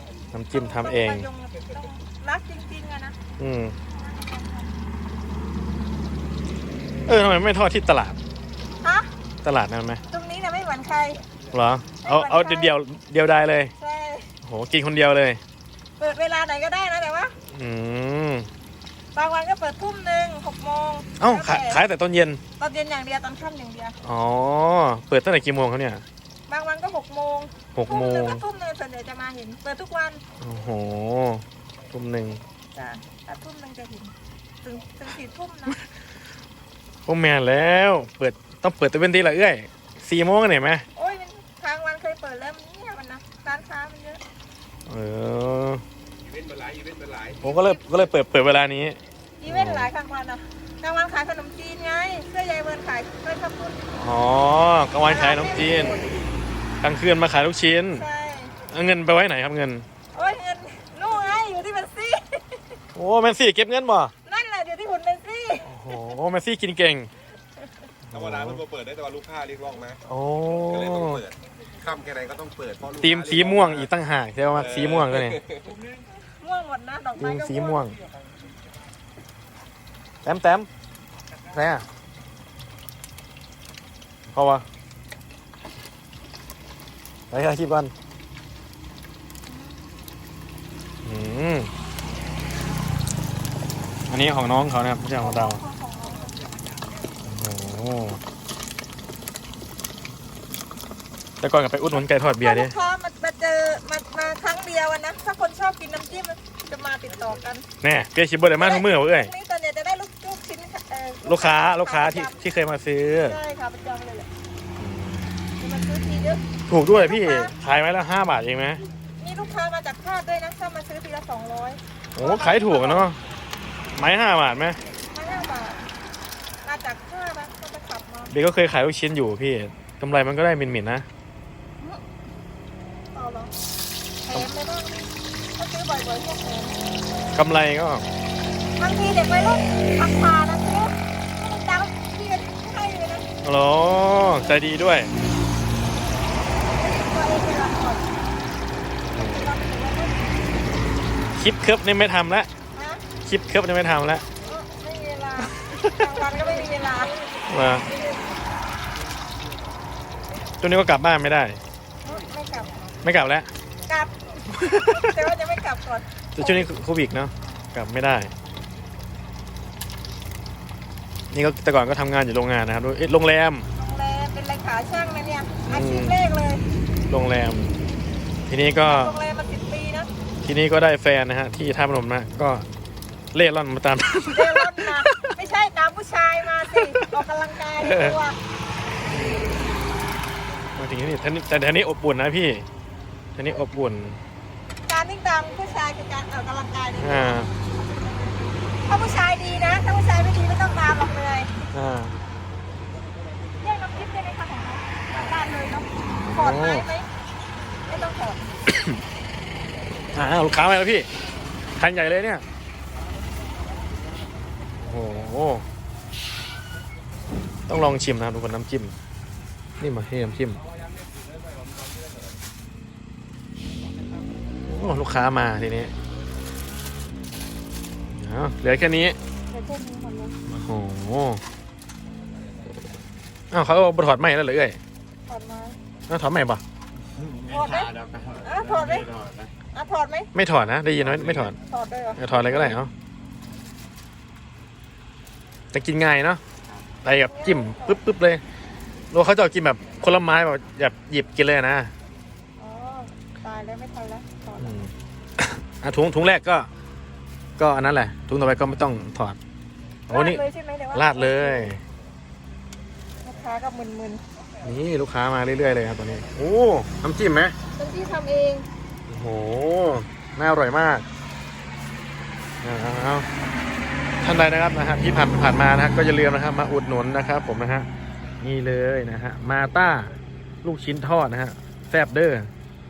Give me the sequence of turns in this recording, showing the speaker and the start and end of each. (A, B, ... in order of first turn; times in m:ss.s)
0:00.3-0:01.3 A
0:00.5-0:03.2 B
0:03.4-0:03.8 A
0:03.9-0:04.7 B
0:07.1-0:08.2 A
0:08.8-0:09.1 B
0:09.4-0:10.0 A
0:10.1-0:11.2 B
0:11.5-0:13.7 A
0:12.0-0:12.7 B
0:13.8-0:14.3 B
0:14.4-0:15.4 A
0:16.0-0:17.3 B
0:17.5-0:18.5 A
0:19.2-0:21.8 B
0:21.2-0:22.4 A
0:22.6-0:24.0 B
0:24.0-0:26.0 A
0:26.5-0:30.2 B
0:27.7-0:28.4 A
0:30.4-0:32.4 A
0:32.7-0:35.8 B
0:37.0-0:40.8 A
0:40.9-0:44.2 B
0:44.9-0:45.8 A
0:46.3-0:47.4 C
0:47.4-0:49.9 A
0:47.4-0:47.8 B
0:49.4-0:54.0 B
0:53.9-0:56.0 A
0:55.0-0:56.3 B
0:56.8-0:58.0 A
0:57.9-0:58.5 B
0:58.7-0:59.8 A
1:00.1-1:02.8 B
1:02.9-1:04.1 A
1:04.2-1:05.8 B
1:05.6-1:07.1 A
1:08.1-1:08.7 A
1:08.2-1:10.0 C
1:10.0-1:11.2 A
1:10.9-1:11.3 C
1:11.8-1:13.6 C
1:13.0-1:15.4 A
1:14.8-1:15.0 C
1:16.2-1:17.9 B
1:17.2-1:18.0 A
1:20.2-1:20.7 A
1:21.5-1:21.8 A
1:24.3-1:24.6 A
1:27.3-1:27.9 A
1:29.5-1:29.9 B
1:31.0-1:31.7 A
1:34.1-1:35.6 A
1:35.2-1:36.5 B
1:37.2-1:38.2 A
1:41.4-1:42.7 A
1:41.9-1:47.6 B
1:47.8-1:49.3 A
1:48.6-1:52.4 B
1:51.2-1:53.4 A
1:53.2-1:54.3 B
1:54.8-1:55.3 A
1:55.6-1:57.5 B
1:56.7-1:58.8 A
1:59.2-2:03.1 B
2:02.2-2:03.2 A
2:03.9-2:04.8 A
2:05.1-2:05.8 B
2:06.6-2:08.3 B
2:08.3-2:11.0 A
2:13.1-2:13.5 B
2:14.2-2:16.8 B
2:17.3-2:18.0 A
2:18.8-2:23.2 B
2:23.4-2:25.1 A
2:26.6-2:28.1 B
2:29.1-2:29.5 A
2:29.2-2:30.4 B
2:31.3-2:32.5 A
2:32.7-2:33.0 B
2:33.2-2:34.2 A
2:34.4-2:37.4 B
2:35.5-2:35.8 A
2:37.5-2:37.9 A
2:40.6-2:41.6 A
2:42.0-2:42.9 B
2:43.0-2:43.5 A
2:43.9-2:46.7 B
2:44.6-2:45.1 A
2:46.4-2:48.3 A
2:51.3-2:53.7 A
2:53.8-2:56.7 B
2:55.7-2:56.2 A
2:57.1-2:57.7 A
2:58.5-2:59.2 A
2:58.8-3:00.1 B
3:00.4-3:02.7 A
3:03.3-3:05.3 A
3:04.3-3:08.4 B
3:06.8-3:07.1 A
3:07.8-3:08.2 A
3:09.0-3:09.5 A
3:10.8-3:12.6 A
3:13.4-3:14.2 A
3:14.9-3:17.5 B
3:17.0-3:17.5 A
3:18.8-3:21.5 B
3:21.7-3:22.2 A
3:23.6-3:27.1 B
3:26.2-3:26.9 A
3:27.9-3:28.4 B
3:28.7-3:29.0 A
3:30.1-3:31.1 A
3:31.8-3:32.4 A
3:34.8-3:35.7 A
3:37.7-3:38.9 A
3:39.8-3:40.6 A
3:44.6-3:45.9 A
3:48.1-3:49.2 A
3:49.5-3:50.4 B
3:50.5-3:51.4 A
3:53.5-3:54.8 A
3:55.3-3:55.8 B
3:56.1-3:56.6 A
3:57.5-3:59.2 B
3:57.6-3:59.5 C
3:59.7-4:00.3 B
4:00.3-4:01.6 A
4:01.6-4:02.8 B
4:02.2-4:02.9 A
4:05.7-4:06.4 A
4:07.0-4:08.4 A
4:07.2-4:08.0 B
4:09.1-4:11.9 A
4:12.6-4:14.8 B
4:14.6-4:16.7 A
4:17.6-4:19.4 A
4:20.1-4:20.4 A
4:20.1-4:21.7 B
4:20.9-4:21.8 A
4:23.2-4:24.2 B
4:24.6-4:27.6 A
4:27.8-4:28.7 B
4:29.1-4:31.0 A
4:32.6-4:33.3 A
4:34.2-4:37.9 A
4:38.4-4:42.5 A